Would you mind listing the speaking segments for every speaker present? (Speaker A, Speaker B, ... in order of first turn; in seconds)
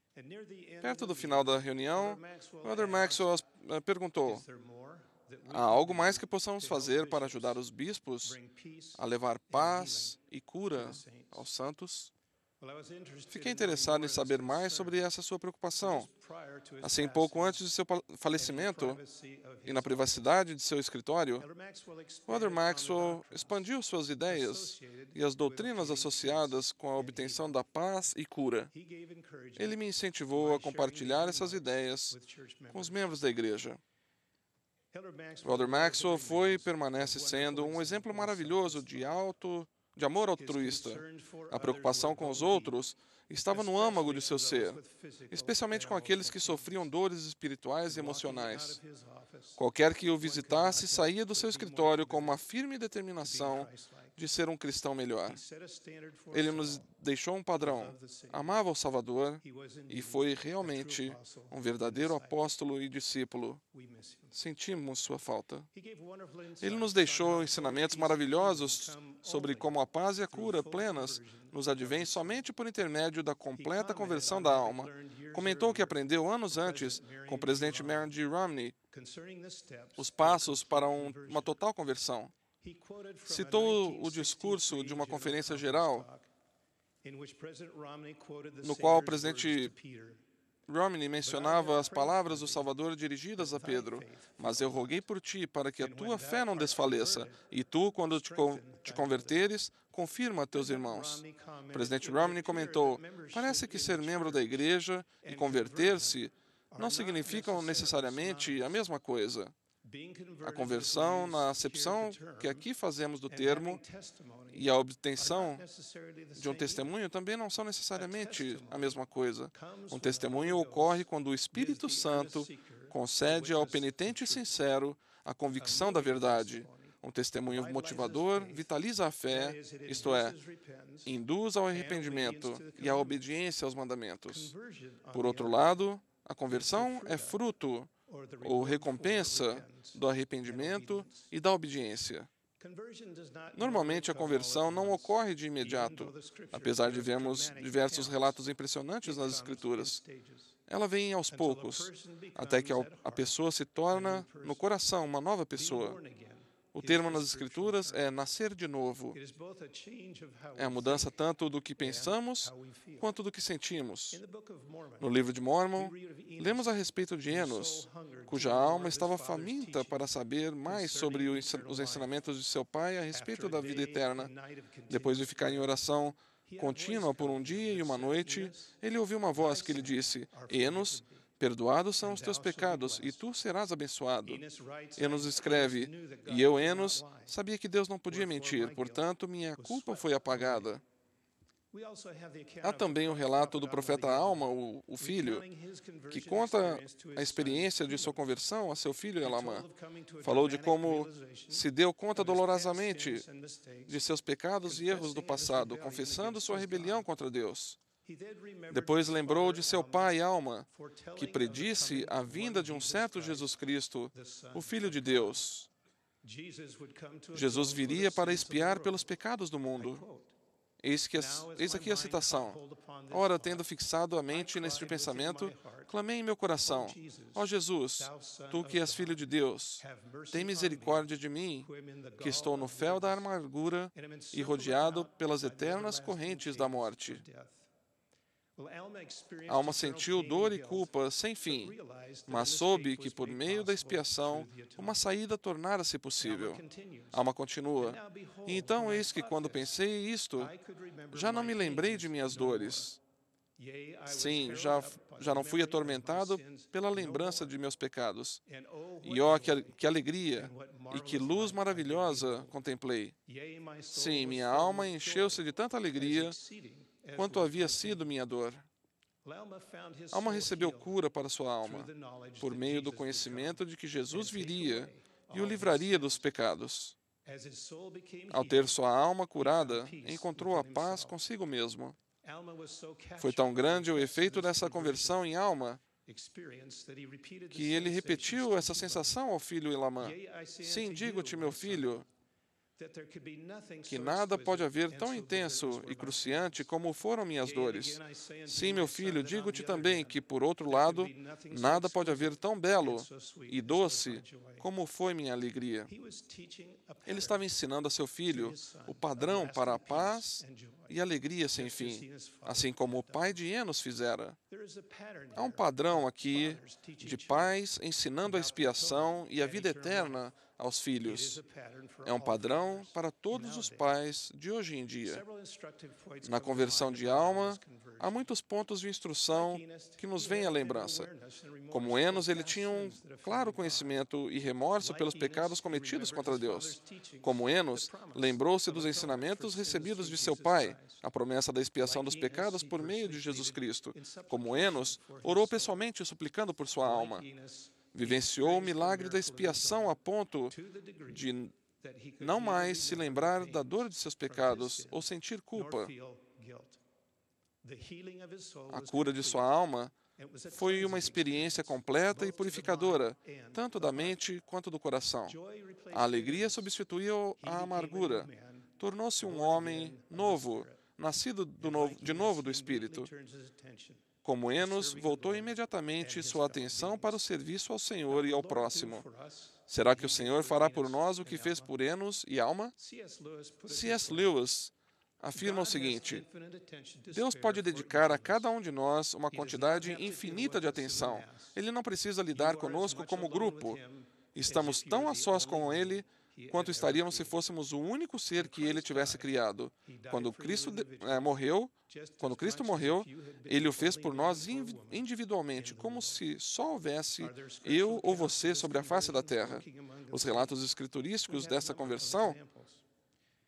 Speaker A: 0.2-3.4, 4.2-7.6, 8.2-10.2, 10.7-11.5, 12.6-15.0, 15.8-17.6, 18.3-20.3, 21.4-23.7, 24.3-27.6, 28.7-29.8, 30.3-33.1, 34.9-39.2, 40.4-42.8, 43.5-46.9, 47.9-49.6, 50.2-52.4, 53.2-54.1, 55.2-56.9, 57.6-58.6, 59.4-62.5, 63.7-64.3, 65.7-72.4, 73.5-78.2, 78.9-81.6, 82.6-86.3, 87.0-90.2, 91.2-92.7, 93.4-95.0, 95.8-97.4, 98.0-99.5, 100.5-104.7, 105.2-106.2, 106.7-108.8, 109.8-112.7, 113.3-116.9, 117.9-119.0, 119.5-124.5, 125.6-126.9, 127.5-128.7, 129.2-131.2, 131.7-133.3, 134.3-135.8, 136.5-137.4, 138.1-141.3, 142.6-148.4, 149.0-150.5, 151.3-153.3, 153.9-154.8, 155.6-158.1, 159.1-161.2, 161.8-163.1, 164.1-172.2, 173.1-175.8, 176.4-178.8, 179.4-181.2, 182.0-183.2, 184.2-187.3, 188.1-190.7, 191.7-198.3, 199.2-203.9, 204.6-207.1, 208.0-210.2, 210.7-213.6, 214.1-215.4, 216.2-219.1, 219.8-220.3, 221.1-223.7, 224.3-225.9, 226.6-227.5, 228.0-231.1, 231.6-233.3, 233.9-237.7, 238.6-240.9, 241.4-245.0, 246.2-247.3, 247.8-249.7, 250.4-252.9, 253.6-257.5, 258.5-259.8, 260.3-262.6, 263.3-268.1, 269.2-271.0, 271.6-276.3, 277.2-278.8, 279.4-281.2, 282.2-285.2, 286.1-289.2, 290.0-292.0, 292.8-296.7, 297.4-304.7, 305.9-307.5, 308.3-311.0, 311.6-313.4, 314.5-317.6, 318.2-320.3, 321.1-324.0, 325.1-328.3, 329.3-334.1, 334.8-341.0, 341.8-345.8, 346.8-350.0, 350.5-356.8, 357.6-359.5, 360.2-364.2, 365.3-366.7, 367.4-370.8, 371.6-377.2, 378.1-381.8, 382.8-384.4, 385.3-388.5, 389.3-391.6, 392.3-397.4, 398.4-399.3, 399.9-406.2, 407.2-410.6, 411.3-412.8
Speaker B: 0.8-4.4, 5.5-8.4, 9.0-12.1, 13.3-16.1, 16.8-19.0, 19.7-21.4, 22.3-28.7, 29.6-32.1, 32.7-33.8, 35.4-44.8, 45.3-48.8, 49.6-55.4, 56.3-63.6, 64.3-65.7, 66.6-78.8, 80.0-82.3, 83.3-86.0, 88.6-89.7, 90.7-101.2, 101.7-109.5, 110.4-113.8, 114.5-115.6, 116.4-130.3, 131.1-134.5, 135.1-137.9, 138.4-142.3, 143.6-150.0, 150.7-156.0, 156.8-159.2, 160.6-164.2, 165.0-174.3, 174.9-184.4, 185.0-190.8, 192.6-195.4, 196.1-199.7, 200.2-203.2, 203.9-207.8, 208.7-215.7, 217.3-220.0, 220.8-222.6, 223.1-231.7, 232.2-237.2, 239.5-241.7, 242.3-246.6, 247.1-250.5, 251.1-253.0, 254.1-258.4, 259.0-263.1, 263.9-266.4, 267.2-268.7, 270.1-271.9, 272.4-277.0, 278.3-282.0, 283.2-285.8, 287.5-292.1, 293.9-305.9, 307.1-314.4, 315.4-321.4, 322.1-325.2, 326.2-331.1, 331.7-347.2, 347.9-350.5, 351.1-351.6, 352.2-355.9, 358.7-359.9, 360.5-365.4, 365.9-368.3, 368.8-373.1, 374.2-379.1, 379.7-382.7, 383.7-386.2, 387.1-393.8, 394.4-412.4